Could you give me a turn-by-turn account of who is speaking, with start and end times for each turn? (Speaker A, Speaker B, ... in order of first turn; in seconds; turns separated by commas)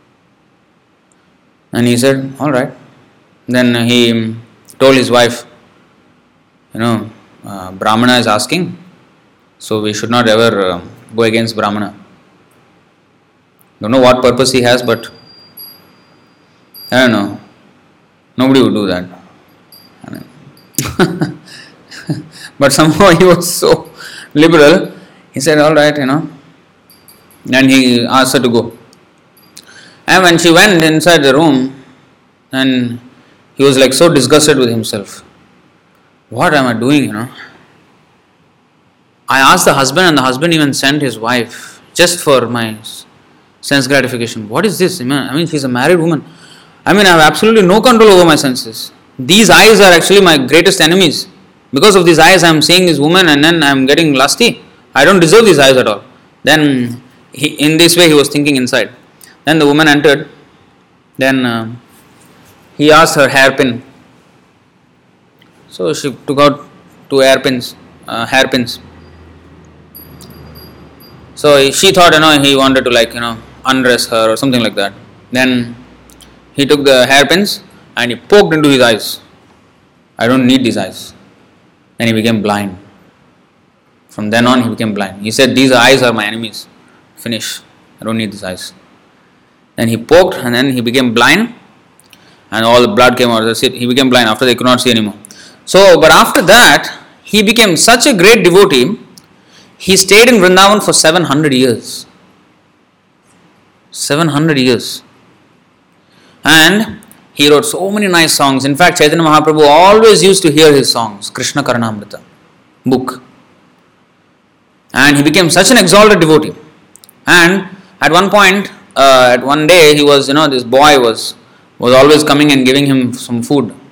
Speaker A: 1.7-2.7, Speaker A: 3.5-5.5, Speaker A: 6.7-8.8, Speaker A: 9.6-11.9, Speaker A: 13.8-15.1, Speaker A: 16.9-17.4, Speaker A: 18.4-19.1, Speaker A: 20.8-21.3, Speaker A: 22.1-26.3, Speaker A: 27.5-28.8, Speaker A: 30.1-31.8, Speaker A: 32.5-33.0, Speaker A: 33.6-35.2, Speaker A: 36.3-37.3, Speaker A: 39.3-43.0, Speaker A: 43.6-46.2, Speaker A: 46.8-58.9, Speaker A: 59.4-60.3, Speaker A: 61.2-61.8, Speaker A: 62.8-63.8, Speaker A: 65.7-68.8, Speaker A: 71.3-75.8, Speaker A: 76.5-79.2, Speaker A: 80.2-81.1, Speaker A: 82.0-82.8, Speaker A: 84.1-86.7, Speaker A: 87.2-88.7, Speaker A: 89.8-91.5, Speaker A: 92.5-99.0, Speaker A: 99.8-102.0, Speaker A: 103.9-105.0, Speaker A: 106.4-112.2, Speaker A: 112.8-113.2, Speaker A: 114.9-116.6, Speaker A: 117.2-123.7